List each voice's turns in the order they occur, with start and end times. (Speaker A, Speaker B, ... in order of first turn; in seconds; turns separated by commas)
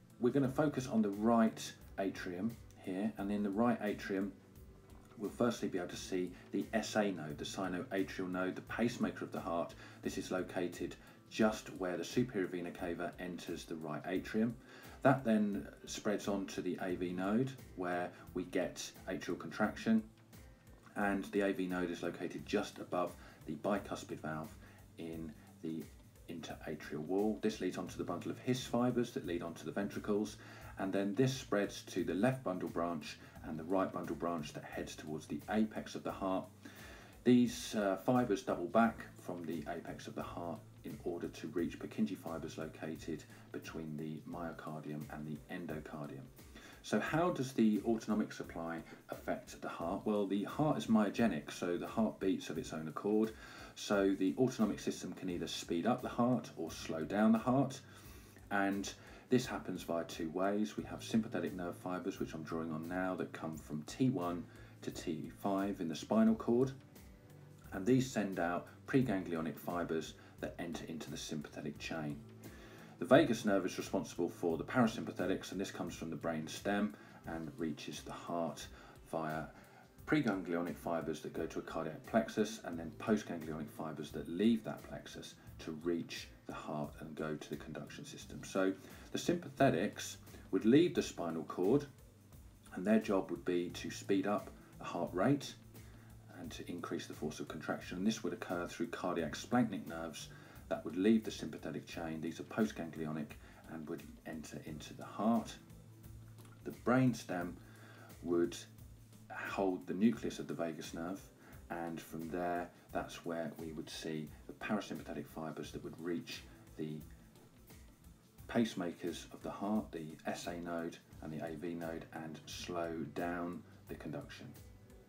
Speaker A: 0.2-4.3, Speaker A: 5.2-20.1, Speaker A: 20.9-36.5, Speaker A: 37.2-46.3, Speaker A: 46.8-57.8, Speaker A: 58.5-66.7, Speaker A: 67.7-72.2, Speaker A: 73.0-79.5, Speaker A: 80.0-91.9, Speaker A: 92.7-95.6, Speaker A: 96.3-105.6, Speaker A: 106.6-107.6, Speaker A: 108.2-108.7, Speaker A: 109.3-117.0, Speaker A: 118.5-124.5